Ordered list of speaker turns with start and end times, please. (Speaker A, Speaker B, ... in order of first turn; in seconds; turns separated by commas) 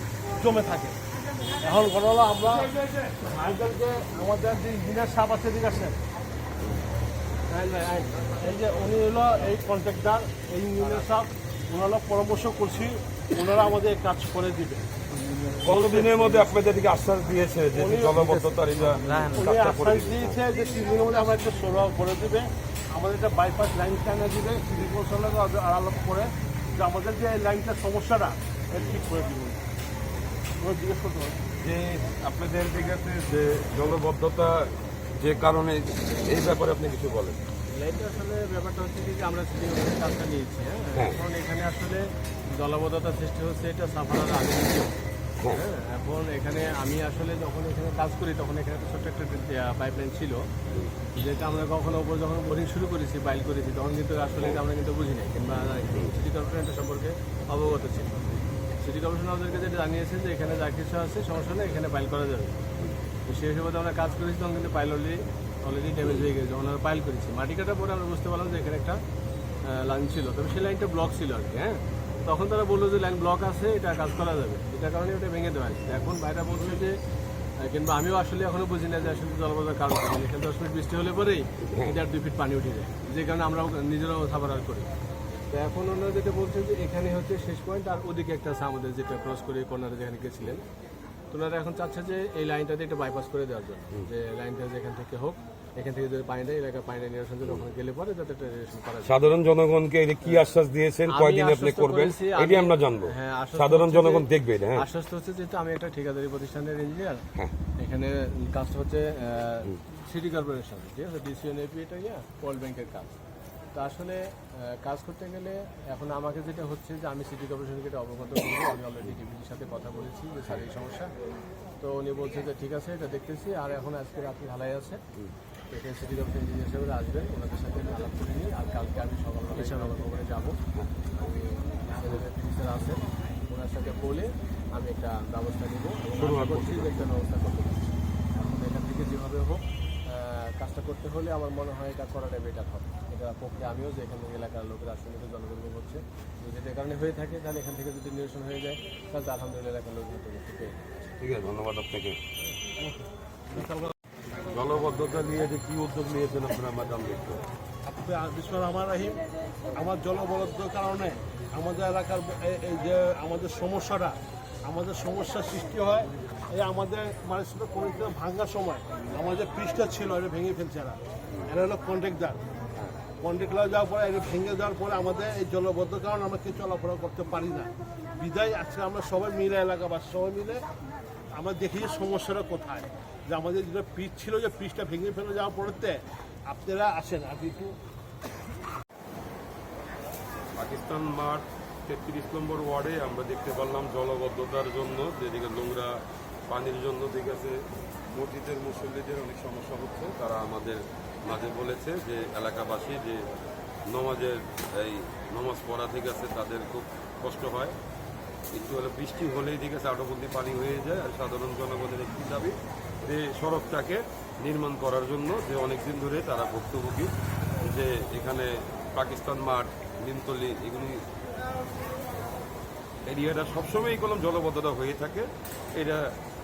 Speaker A: 0.4-0.9, Speaker A: 1.6-5.9, Speaker B: 7.5-8.1, Speaker A: 8.1-14.8, Speaker C: 15.6-20.4, Speaker A: 15.6-16.4, Speaker A: 17.7-18.6, Speaker A: 19.2-29.6, Speaker A: 30.6-31.4, Speaker C: 31.6-37.4, Speaker B: 37.7-44.9, Speaker B: 45.5-50.4, Speaker B: 51.1-62.6, Speaker B: 63.2-69.0, Speaker C: 66.0-66.3, Speaker B: 69.7-77.0, Speaker B: 77.6-84.9, Speaker C: 81.6-82.0, Speaker B: 85.5-90.6, Speaker B: 91.3-99.1, Speaker C: 99.0-104.8, Speaker B: 101.1-107.2, Speaker B: 107.8-113.2, Speaker B: 113.7-121.1, Speaker B: 121.8-125.0, Speaker B: 125.7-130.6, Speaker B: 131.1-151.0, Speaker C: 136.1-137.0, Speaker C: 151.2-152.2, Speaker C: 154.4-157.4, Speaker A: 157.8-172.4, Speaker A: 173.2-180.6, Speaker A: 181.3-187.7, Speaker C: 190.6-197.6, Speaker C: 198.1-203.2, Speaker C: 203.9-207.8, Speaker C: 208.5-217.1, Speaker C: 217.6-221.0, Speaker C: 223.1-226.0